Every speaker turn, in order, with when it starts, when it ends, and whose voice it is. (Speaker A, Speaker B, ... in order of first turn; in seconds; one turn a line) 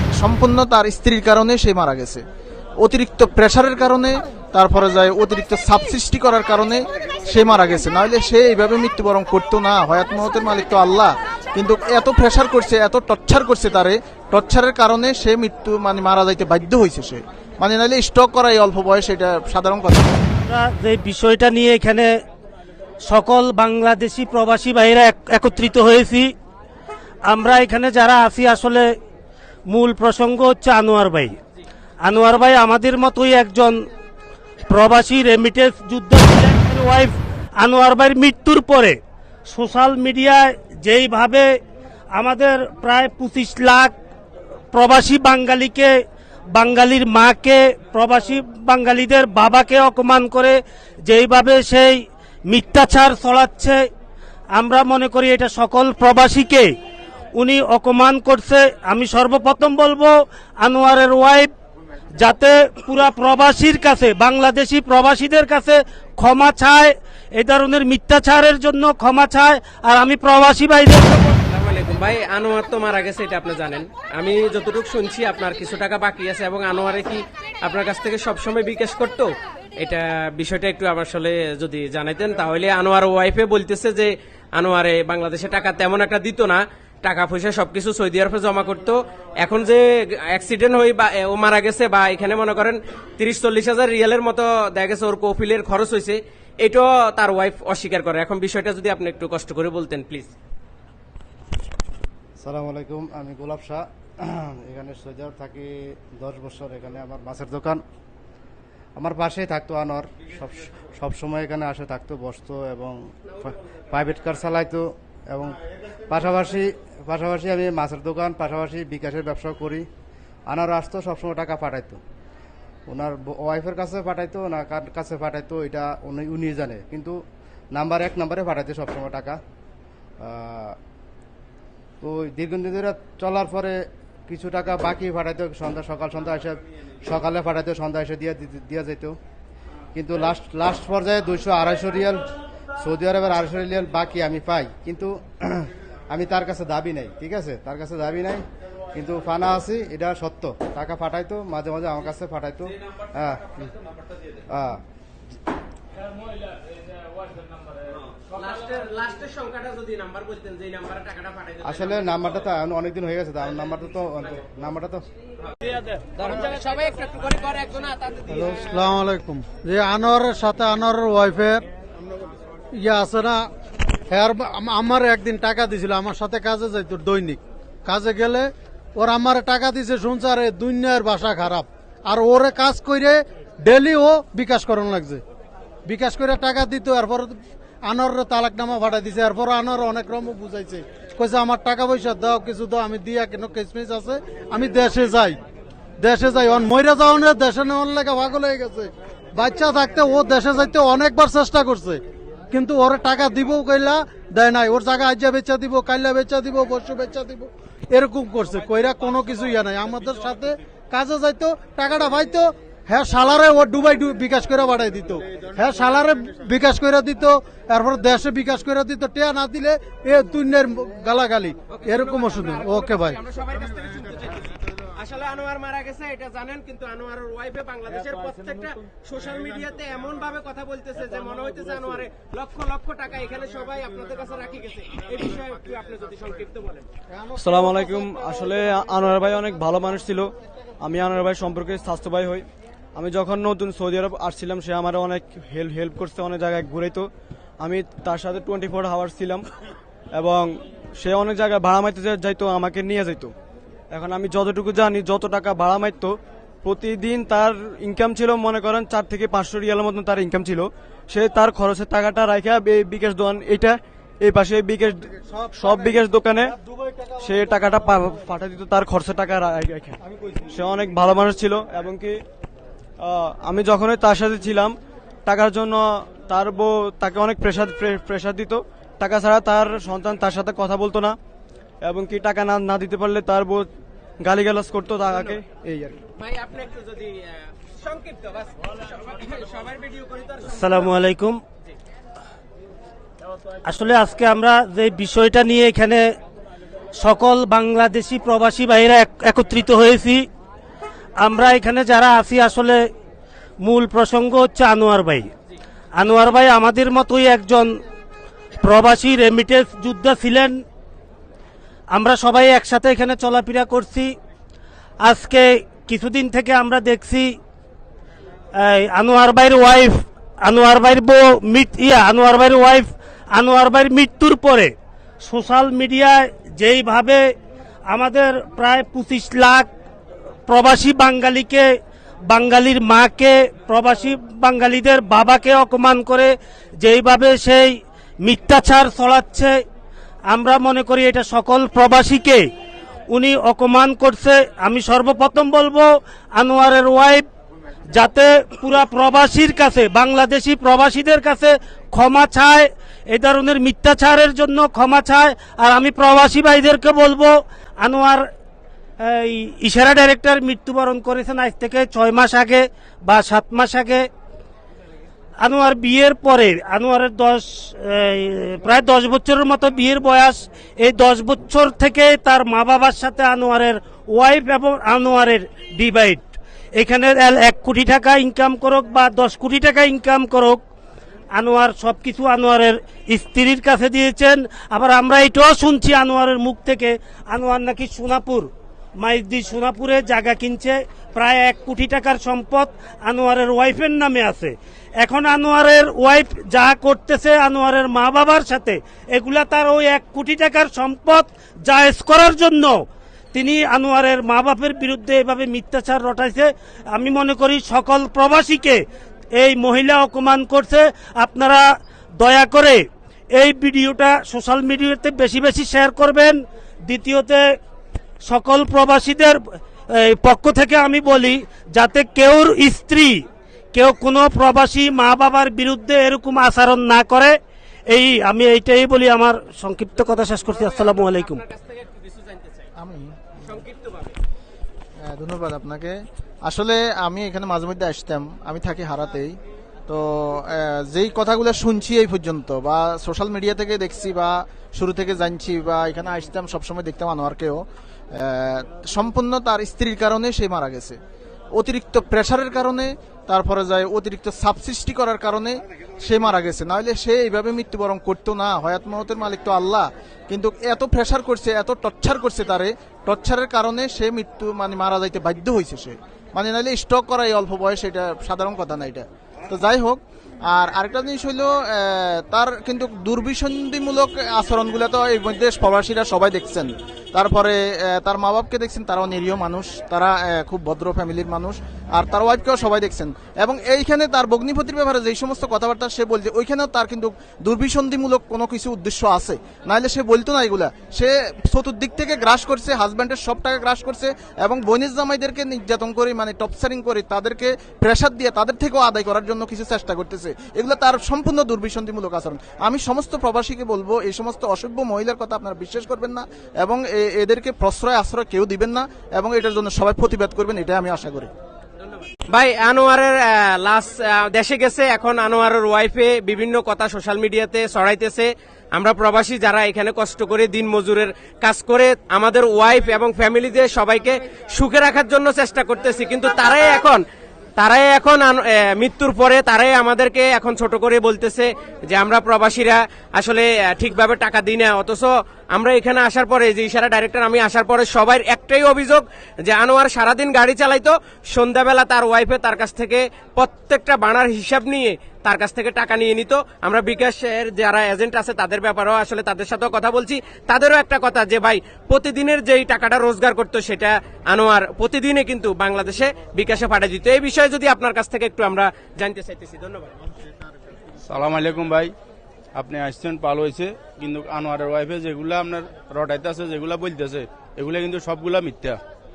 Speaker A: 0.1-2.2
Speaker A: 2.8-20.2
Speaker B: 20.4-22.1
Speaker B: 23.0-26.3
Speaker B: 27.3-28.9
Speaker B: 29.7-31.4
Speaker B: 32.0-33.8
Speaker B: 34.7-39.0
Speaker B: 39.5-41.5
Speaker B: 42.1-43.9
Speaker B: 44.7-45.9
Speaker B: 46.5-53.9
Speaker B: 54.5-56.7
Speaker B: 57.4-61.5
Speaker B: 62.2-71.4
Speaker C: 71.5-79.3
Speaker C: 79.8-89.8
Speaker C: 90.3-100.3
Speaker D: 102.4-107.8
Speaker D: 109.0-119.8
Speaker D: 120.5-122.0
Speaker D: 122.9-127.2
Speaker D: 127.7-129.4
Speaker D: 130.2-130.8
Speaker D: 132.0-139.2
Speaker D: 139.9-148.4
Speaker D: 148.9-153.5
Speaker D: 154.5-154.8
Speaker C: 158.3-162.1
Speaker D: 161.6-165.0
Speaker C: 166.1-168.6
Speaker E: 168.3-171.7
Speaker E: 172.7-173.5
Speaker E: 174.1-185.2
Speaker E: 185.9-195.4
Speaker E: 196.0-223.2
Speaker C: 221.7-236.9
Speaker E: 237.1-238.9
Speaker F: 237.4-247.1
Speaker F: 247.6-249.5
Speaker F: 250.2-253.3
Speaker F: 253.9-266.5
Speaker E: 265.2-266.0
Speaker F: 267.2-272.2
Speaker F: 273.0-281.2
Speaker F: 281.9-283.7
Speaker F: 284.2-286.0
Speaker C: 285.1-285.3
Speaker C: 286.2-290.9
Speaker B: 290.6-291.4
Speaker B: 293.7-296.1
Speaker B: 297.0-300.3
Speaker B: 301.2-302.8
Speaker B: 303.6-305.3
Speaker B: 306.0-307.7
Speaker B: 308.6-310.6
Speaker B: 311.9-314.1
Speaker B: 315.0-317.4
Speaker B: 318.6-327.2
Speaker B: 327.9-329.7
Speaker B: 330.5-331.7
Speaker B: 332.3-339.6
Speaker B: 340.3-342.5
Speaker B: 343.1-347.3
Speaker B: 347.9-358.2
Speaker B: 359.0-364.1
Speaker B: 365.4-376.2
Speaker B: 376.8-380.6
Speaker B: 381.3-388.5
Speaker B: 389.0-408.8
Speaker B: 409.4-411.7
Speaker B: 412.2-417.4
Speaker B: 418.2-419.4
Speaker B: 419.9-427.4
Speaker B: 427.9-431.4
Speaker C: 430.6-432.7
Speaker A: 432.8-433.1
Speaker C: 433.4-434.2
Speaker A: 435.1-451.0
Speaker A: 451.5-511.3
Speaker C: 512.3-527.0
Speaker C: 527.6-560.0
Speaker G: 561.1-561.9
Speaker G: 562.5-568.8